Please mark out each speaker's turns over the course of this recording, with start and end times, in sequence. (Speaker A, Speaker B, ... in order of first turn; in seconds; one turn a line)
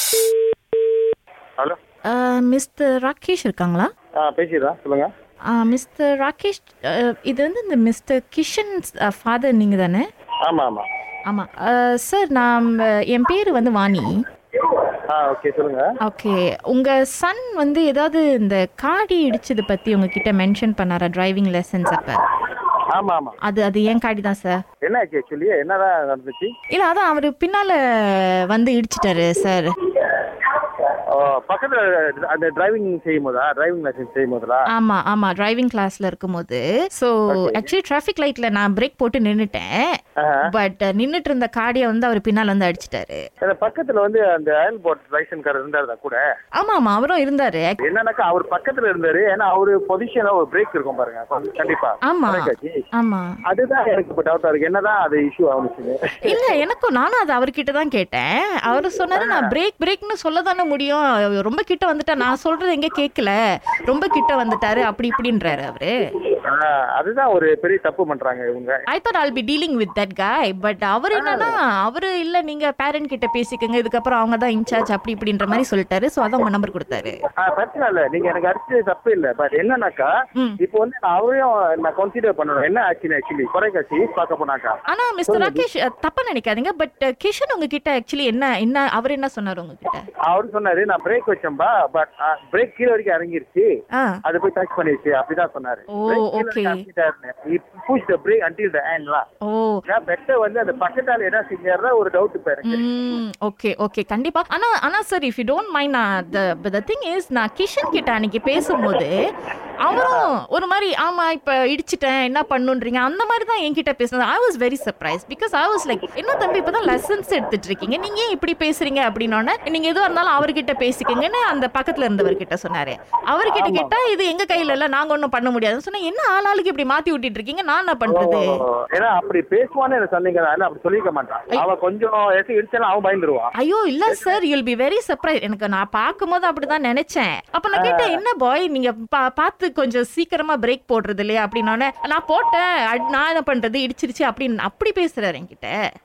Speaker A: 2.1-3.9
Speaker B: 4.2-5.1
Speaker A: 5.5-10.1
Speaker B: 10.4-10.8
Speaker A: 11.3-14.1
Speaker B: 15.1-15.9
Speaker A: 16.0-22.2
Speaker B: 22.9-23.4
Speaker A: 23.4-24.6
Speaker B: 24.8-26.5
Speaker A: 26.7-29.7
Speaker B: 31.1-34.6
Speaker A: 34.7-43.2
Speaker B: 37.3-37.7
Speaker B: 40.2-40.4
Speaker B: 43.4-46.2
Speaker A: 46.6-47.8
Speaker B: 47.8-52.8
Speaker A: 52.1-53.4
Speaker B: 53.5-56.5
Speaker A: 56.2-65.9
Speaker B: 59.1-59.5
Speaker B: 66.5-68.8
Speaker A: 68.9-77.2
Speaker B: 71.1-71.6
Speaker B: 77.4-84.8
Speaker A: 84.9-90.0
Speaker B: 85.3-85.6
Speaker B: 90.2-93.7
Speaker B: 94.2-99.2
Speaker A: 95.9-96.8
Speaker A: 99.4-99.8
Speaker B: 99.9-102.8
Speaker A: 102.6-109.1
Speaker A: 109.8-128.5
Speaker B: 109.9-110.3
Speaker B: 123.5-124.0
Speaker B: 128.1-133.5
Speaker A: 133.6-145.7
Speaker B: 134.1-134.4
Speaker B: 137.7-138.2